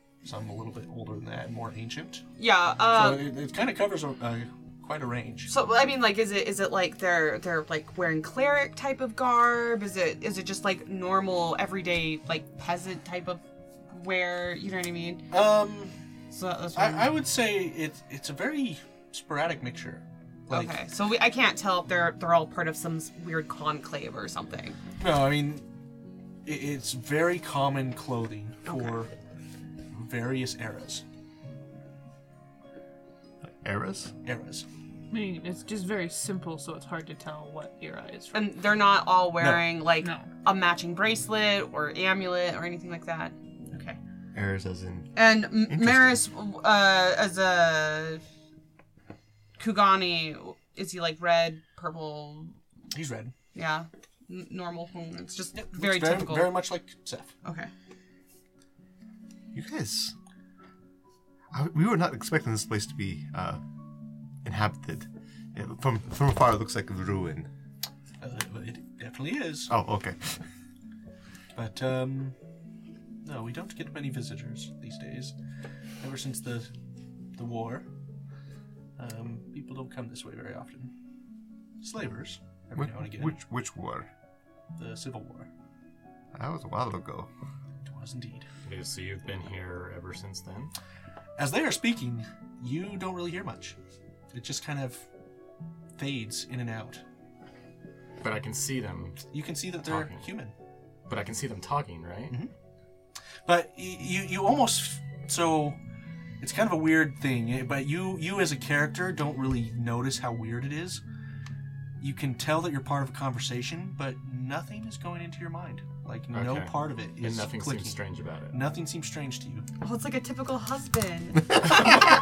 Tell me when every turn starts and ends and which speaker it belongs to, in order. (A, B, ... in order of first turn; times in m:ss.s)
0:00.2-0:02.2 A
0:02.4-0:03.3 B
0:02.9-0:05.5 A
0:05.4-0:15.3 B
0:15.3-0:15.9 A
0:16.3-0:17.1 B
0:16.7-0:20.7 A
0:20.5-0:24.8 B
0:25.0-0:25.6 A
0:26.4-0:29.1 A
0:29.9-0:31.0 A
0:33.4-0:34.1 C
0:34.2-0:34.6 A
0:35.1-0:38.5 D
0:38.3-0:44.0 B
0:40.0-0:40.3 D
0:44.3-0:46.2 C
0:45.1-0:48.2 B
0:49.6-0:52.6 B
0:52.9-0:53.3 A
0:53.5-0:56.6 B
0:55.5-0:57.3 A
0:57.4-0:57.7 B
0:59.5-1:00.1 C
1:01.5-1:03.6 C
1:04.4-1:07.5 C
1:08.2-1:09.7 A
1:09.7-1:10.4 C
1:11.5-1:12.4 A
1:13.2-1:15.4 A
1:16.0-1:16.7 A
1:17.4-1:17.9 A
1:19.0-1:20.9 A
1:21.8-1:23.4 A
1:22.8-1:24.1 C
1:24.8-1:25.5 A
1:26.3-1:27.3 C
1:27.8-1:28.5 A
1:28.6-1:30.7 E
1:31.4-1:33.8 A
1:34.3-1:35.0 A
1:36.0-1:37.0 A
1:38.2-1:39.3 E
1:39.3-1:40.5 A
1:39.8-1:40.3 E
1:41.1-1:42.4 E
1:43.4-1:45.8 A
1:46.4-1:51.0 A
1:52.0-1:59.6 A
1:56.3-1:58.7 E
1:59.8-2:01.9 B